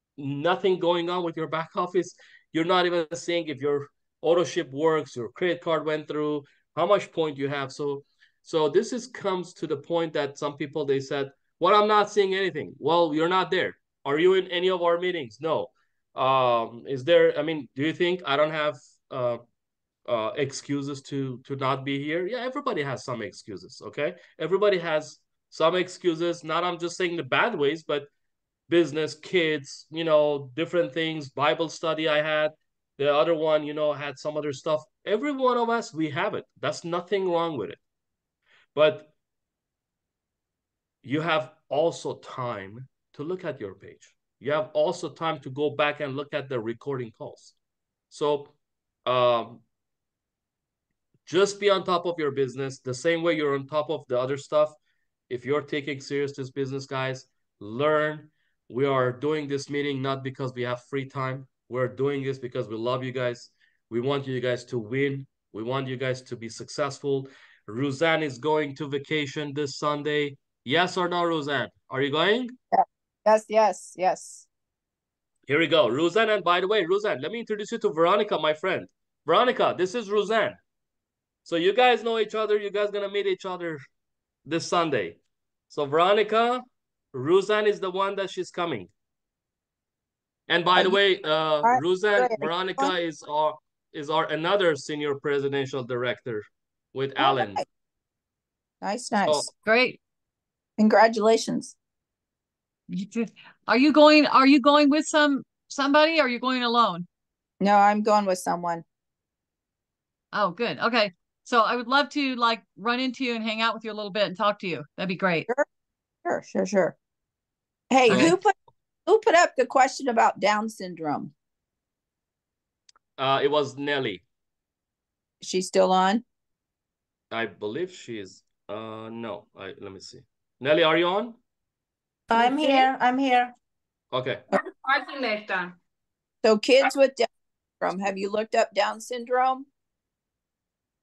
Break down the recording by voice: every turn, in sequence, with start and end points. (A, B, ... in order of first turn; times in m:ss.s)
0:00.2-0:19.4 A
0:20.1-0:28.1 A
0:28.7-0:37.8 A
0:38.8-0:39.1 A
0:41.0-0:47.6 A
0:48.1-0:48.5 A
0:49.0-0:49.6 A
0:51.3-0:54.8 A
0:55.3-1:12.6 A
1:12.7-1:14.5 B
1:15.5-1:20.6 A
1:21.4-1:23.8 A
1:24.5-1:25.2 A
1:25.7-1:28.9 A
1:30.5-1:37.6 A
1:31.6-1:32.9 B
1:37.2-1:37.6 B
1:38.8-1:39.5 B
1:39.2-1:39.5 A
1:39.6-1:40.0 C
1:40.8-1:41.8 B
1:42.9-1:47.1 C
1:47.6-1:48.8 B
1:50.3-1:55.5 C
1:56.2-1:57.0 B
1:57.9-1:58.5 B
1:58.1-1:58.3 C
1:58.1-1:58.4 A
1:59.1-2:01.3 B
2:03.2-2:04.2 A
2:05.4-2:06.2 B
2:07.3-2:11.4 A
2:12.3-2:13.5 D
2:14.1-2:14.4 A
2:14.9-2:15.7 D
2:16.4-2:17.3 B
2:17.8-2:19.7 B